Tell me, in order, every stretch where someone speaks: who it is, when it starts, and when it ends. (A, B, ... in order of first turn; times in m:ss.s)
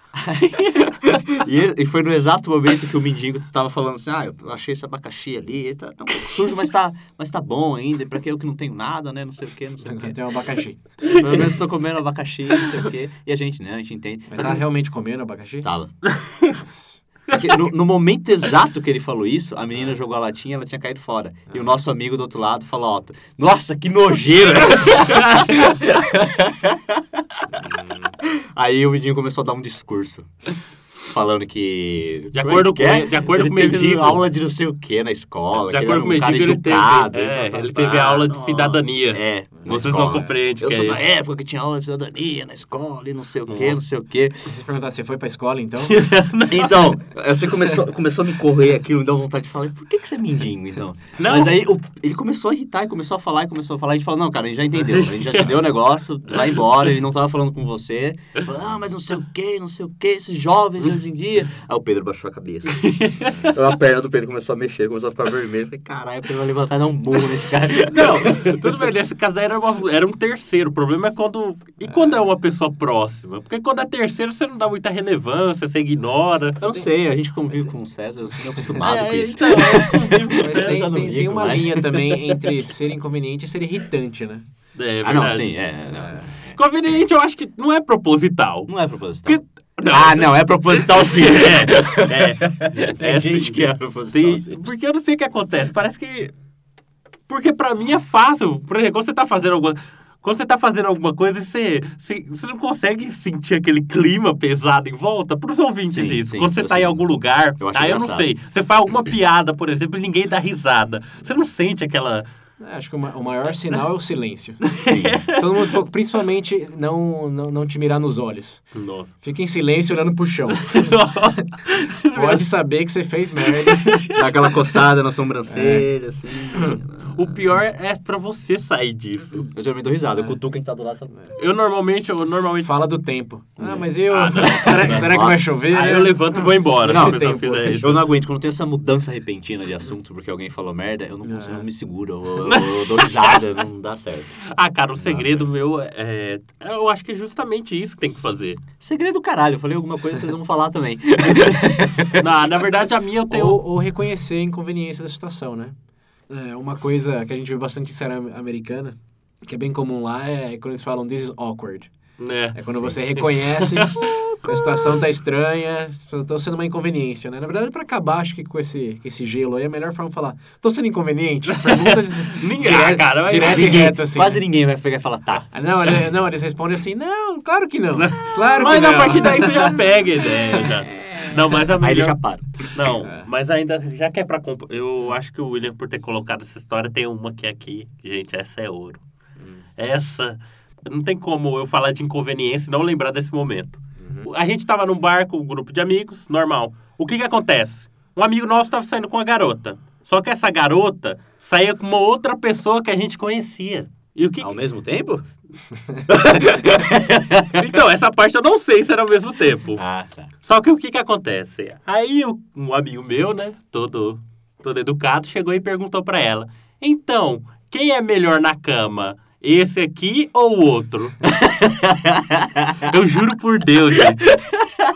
0:00.2-0:10.2 A
0:09.8-0:10.8 B
0:11.1-0:14.6 A
0:14.3-0:15.7 B
0:15.6-0:15.9 A
0:16.1-0:16.6 C
0:16.5-0:17.0 B
0:17.3-0:27.0 A
0:24.9-0:25.6 C
0:27.6-0:28.1 B
0:28.2-0:30.3 A
0:31.1-0:44.5 A
0:32.3-0:34.2 C
0:35.7-0:41.0 C
0:39.6-0:40.3 B
0:43.5-0:43.8 C
0:44.5-0:46.0 B
0:45.8-0:46.9 C
0:46.5-1:02.9 A
0:51.2-0:51.6 C
0:54.9-0:55.5 C
1:02.7-1:03.5 C
1:03.4-1:08.6 A
1:07.8-1:16.6 C
1:16.6-1:22.7 A
1:18.8-1:20.8 C
1:20.3-1:24.4 B
1:24.8-1:25.5 C
1:25.0-1:26.5 A
1:25.9-1:26.3 B
1:26.5-1:28.7 C
1:28.7-1:34.6 A
1:29.2-1:36.3 C
1:37.3-1:52.2 C
1:45.9-1:48.3 A
1:52.6-1:54.7 B
1:54.7-1:55.7 C
1:54.8-1:55.2 A
1:55.3-2:01.0 B
1:58.7-1:59.1 C
2:00.5-2:02.5 C
2:02.1-2:04.1 B
2:03.4-2:04.2 C
2:04.1-2:07.2 A
2:05.5-2:05.9 B
2:07.1-2:09.5 C
2:09.5-2:11.3 A
2:11.4-2:12.7 C
2:12.6-2:17.9 B
2:13.6-2:13.9 A
2:14.1-2:15.1 C
2:14.6-2:15.7 A
2:15.7-2:18.0 C
2:16.8-2:17.2 A
2:17.8-2:24.3 A
2:21.2-2:21.6 B
2:22.4-2:23.4 C
2:24.5-2:28.6 C
2:25.0-2:25.4 A
2:28.8-2:32.3 A
2:32.2-2:33.6 C
2:33.3-2:35.7 B
2:36.3-2:41.9 B
2:42.2-2:42.6 C
2:42.5-2:54.4 B
2:43.1-2:44.2 C
2:51.5-2:53.9 C
2:53.3-2:55.9 A
2:55.5-2:59.7 B
2:57.9-3:09.0 C
3:01.7-3:02.9 A
3:03.0-3:03.3 B
3:09.4-3:09.6 B
3:09.8-3:24.6 C
3:14.0-3:14.3 B
3:24.4-3:25.3 A
3:26.1-3:27.6 A
3:27.5-3:29.8 C
3:29.8-3:30.3 A
3:30.4-3:41.3 C
3:41.4-3:42.6 A
3:42.7-3:44.4 C